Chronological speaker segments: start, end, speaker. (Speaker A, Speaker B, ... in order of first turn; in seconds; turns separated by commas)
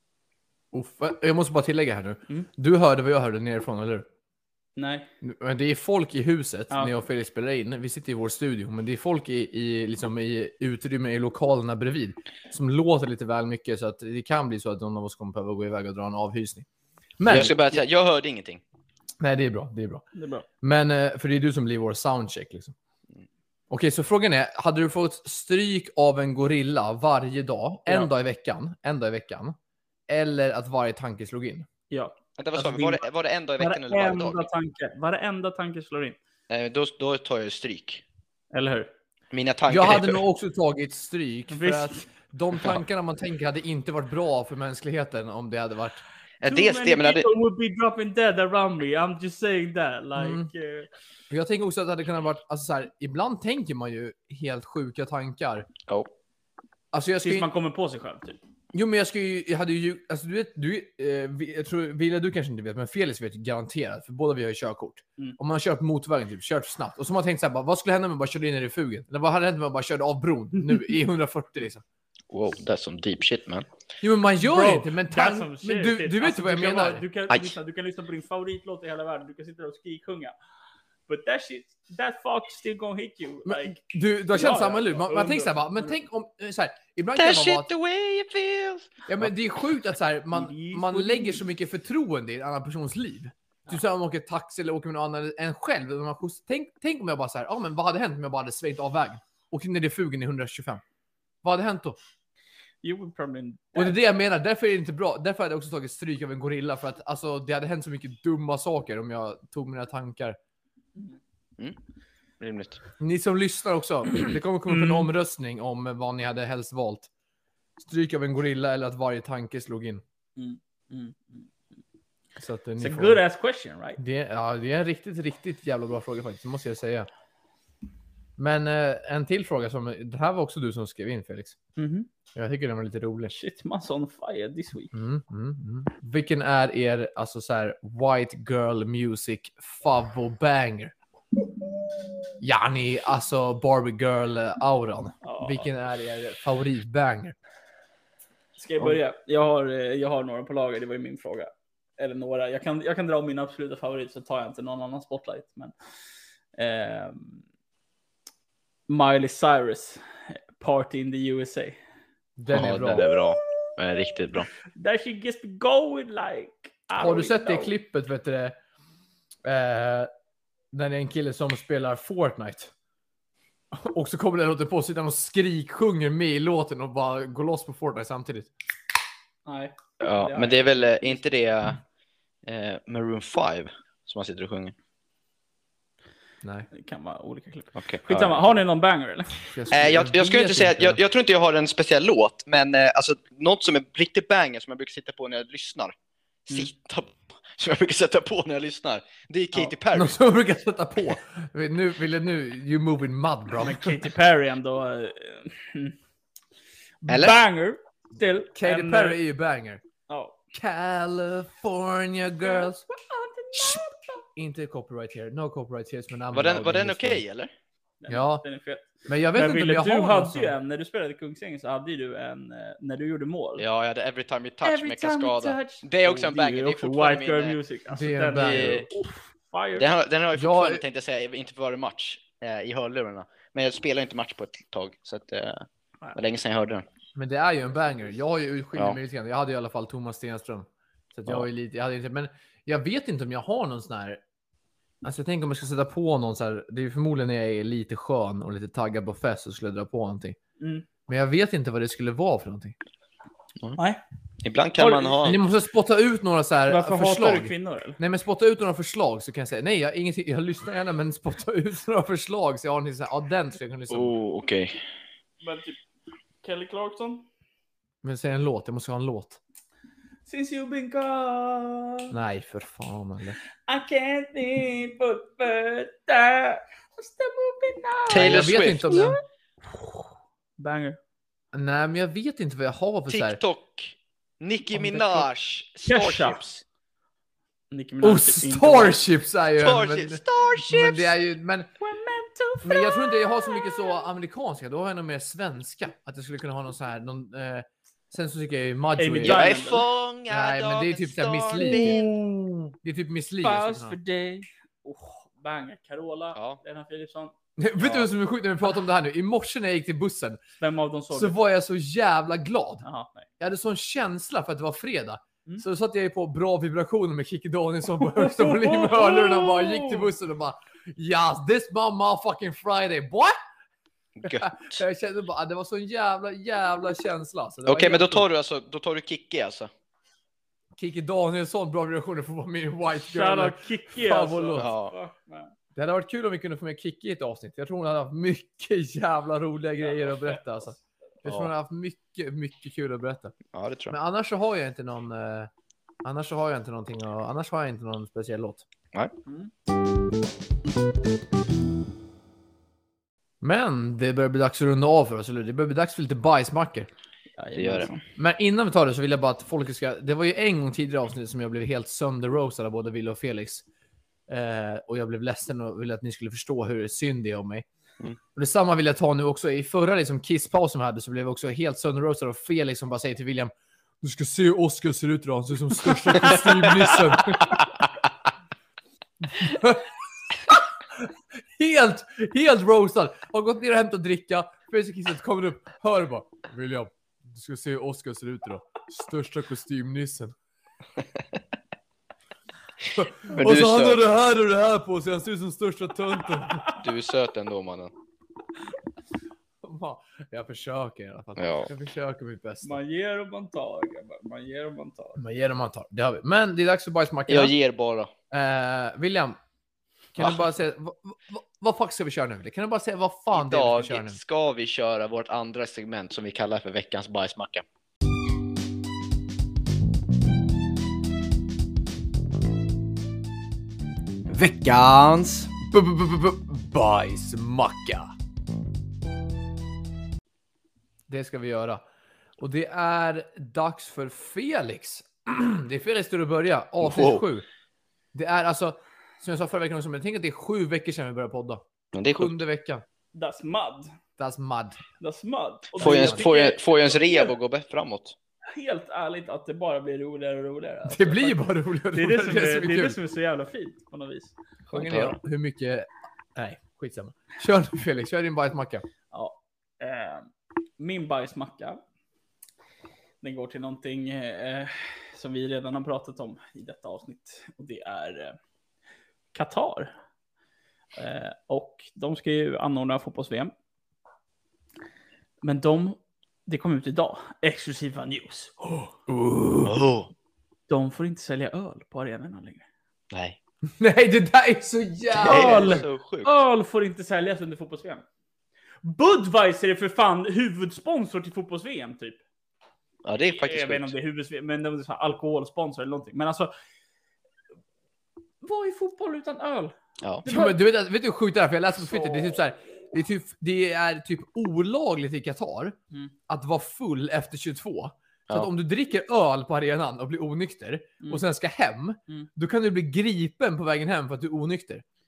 Speaker A: 0.7-4.1, Speaker B: 4.8-5.1, Speaker A: 5.2-16.7, Speaker A: 17.2-17.6, Speaker C: 17.3-18.6, Speaker A: 19.2-20.1, Speaker B: 20.1-20.5, Speaker A: 20.6-22.7, Speaker A: 23.7-29.6, Speaker A: 30.1-31.7, Speaker B: 31.9-33.0, Speaker C: 32.4-34.5, Speaker B: 33.6-36.2, Speaker C: 36.5-38.0, Speaker B: 38.5-38.9, Speaker C: 39.3-40.2, Speaker A: 39.7-46.0, Speaker B: 41.5-42.0, Speaker C: 46.4-47.3, Speaker B: 46.5-50.9, Speaker A: 50.2-50.5, Speaker A: 51.3-55.7, Speaker A: 56.9-57.5, Speaker B: 57.2-58.4, Speaker A: 58.7-71.8, Speaker C: 72.3-73.7, Speaker A: 74.0-77.0, Speaker B: 74.4-80.3, Speaker C: 77.3-77.5, Speaker B: 81.1-83.8, Speaker A: 83.5-87.7, Speaker B: 84.3-85.9, Speaker C: 87.2-89.1, Speaker A: 89.1-100.8, Speaker B: 90.3-91.5, Speaker A: 101.4-102.0, Speaker B: 102.8-104.0, Speaker A: 103.8-110.4, Speaker C: 112.4-112.8, Speaker A: 113.0-117.1, Speaker B: 114.7-115.1, Speaker A: 117.8-120.0, Speaker B: 120.4-121.5, Speaker A: 122.4-123.2, Speaker B: 122.8-124.0, Speaker A: 124.0-127.1, Speaker A: 128.4-131.6, Speaker B: 131.8-132.1, Speaker A: 132.3-133.3, Speaker B: 133.3-134.9, Speaker A: 134.9-140.9, Speaker A: 142.4-147.4, Speaker B: 145.2-145.7, Speaker B: 148.6-155.7, Speaker B: 156.6-157.4, Speaker B: 158.9-161.8, Speaker A: 162.4-163.1, Speaker C: 162.5-164.5, Speaker B: 164.8-167.7, Speaker A: 167.0-168.6, Speaker A: 169.4-170.1, Speaker A: 170.7-172.7, Speaker A: 173.7-178.5, Speaker B: 179.5-181.2, Speaker C: 180.0-181.8, Speaker C: 182.5-184.7, Speaker A: 186.4-186.7, Speaker B: 186.7-189.4, Speaker C: 187.8-188.4, Speaker A: 189.5-191.0, Speaker C: 189.7-195.9, Speaker C: 196.5-200.2, Speaker A: 199.9-204.1, Speaker B: 203.6-206.0, Speaker B: 207.1-209.2, Speaker C: 207.1-207.4, Speaker A: 208.6-209.8, Speaker B: 210.1-210.4, Speaker A: 210.5-212.8, Speaker B: 212.4-214.2, Speaker A: 213.5-217.2, Speaker C: 216.3-217.5, Speaker B: 218.0-223.6, Speaker A: 218.1-218.4, Speaker A: 219.1-220.6, Speaker C: 223.6-227.6, Speaker B: 224.6-229.9, Speaker A: 227.9-228.9, Speaker C: 228.4-228.8, Speaker C: 229.8-236.8, Speaker A: 230.3-230.8, Speaker A: 237.2-244.2, Speaker A: 245.0-250.4, Speaker B: 250.6-250.9, Speaker A: 251.1-252.8, Speaker C: 254.4-255.4, Speaker B: 254.8-255.3, Speaker A: 255.2-264.1, Speaker B: 256.7-258.0, Speaker C: 263.9-264.8, Speaker B: 265.4-265.8, Speaker B: 266.4-267.2, Speaker A: 268.0-269.4, Speaker B: 270.3-272.2, Speaker A: 272.1-273.4, Speaker B: 273.7-279.2, Speaker C: 278.1-279.0, Speaker A: 278.1-279.2, Speaker B: 279.7-280.0, Speaker B: 280.6-281.0, Speaker A: 281.5-283.4, Speaker C: 283.1-286.6, Speaker A: 284.7-285.3, Speaker B: 285.9-286.4, Speaker B: 287.7-289.0, Speaker A: 288.0-291.7, Speaker C: 289.6-291.1, Speaker B: 291.8-294.1, Speaker A: 292.6-299.5, Speaker B: 299.0-299.9, Speaker C: 299.2-302.1, Speaker A: 300.3-302.1, Speaker B: 301.6-302.7, Speaker A: 302.8-304.0, Speaker B: 303.4-307.3, Speaker C: 306.4-306.6, Speaker A: 307.6-310.4, Speaker C: 307.8-308.1, Speaker B: 310.6-311.4, Speaker A: 311.1-312.9, Speaker B: 312.8-313.3, Speaker A: 313.4-323.4, Speaker B: 318.0-320.1, Speaker C: 324.2-324.7, Speaker A: 324.2-328.3, Speaker C: 327.7-329.7, Speaker A: 330.8-334.7, Speaker B: 333.0-335.5, Speaker C: 334.6-334.9, Speaker A: 335.8-343.4, Speaker B: 339.8-340.8, Speaker C: 341.3-341.5, Speaker C: 343.5-343.9, Speaker A: 343.9-345.5, Speaker A: 346.0-348.7, Speaker B: 349.3-349.5, Speaker A: 353.4-356.9, Speaker B: 357.4-358.0, Speaker C: 357.6-357.9, Speaker A: 358.2-363.6, Speaker A: 364.3-367.7, Speaker A: 368.4-377.7, Speaker A: 379.2-390.4, Speaker A: 393.0-396.8, Speaker C: 393.4-394.0, Speaker C: 396.7-397.9, Speaker A: 399.6-402.8, Speaker C: 401.4-401.7, Speaker B: 402.6-405.2, Speaker A: 405.2-407.5, Speaker C: 407.3-408.1, Speaker A: 408.3-409.4, Speaker A: 410.1-414.2, Speaker C: 413.3-417.6, Speaker A: 424.3-428.1, Speaker A: 431.1-431.8, Speaker A: 432.4-437.5, Speaker C: 436.8-437.2, Speaker A: 438.1-441.6, Speaker C: 441.9-442.4, Speaker A: 442.2-442.8, Speaker B: 443.1-443.9, Speaker A: 444.2-444.8, Speaker B: 445.0-447.3, Speaker C: 445.8-448.1, Speaker A: 445.8-446.2, Speaker B: 448.5-454.4, Speaker A: 450.9-453.0, Speaker C: 454.7-455.2, Speaker A: 454.7-458.9, Speaker B: 459.1-461.8, Speaker B: 463.2-468.4, Speaker B: 469.3-469.9, Speaker B: 471.0-473.5, Speaker B: 475.4-478.9, Speaker A: 479.1-479.7, Speaker C: 479.6-480.1, Speaker B: 480.7-482.7, Speaker C: 483.1-483.4, Speaker A: 483.8-485.8, Speaker C: 485.2-486.4, Speaker B: 485.2-488.0, Speaker B: 488.8-492.2, Speaker C: 493.0-493.9, Speaker B: 493.3-496.5, Speaker B: 498.4-500.6, Speaker A: 500.3-505.8, Speaker A: 506.3-514.8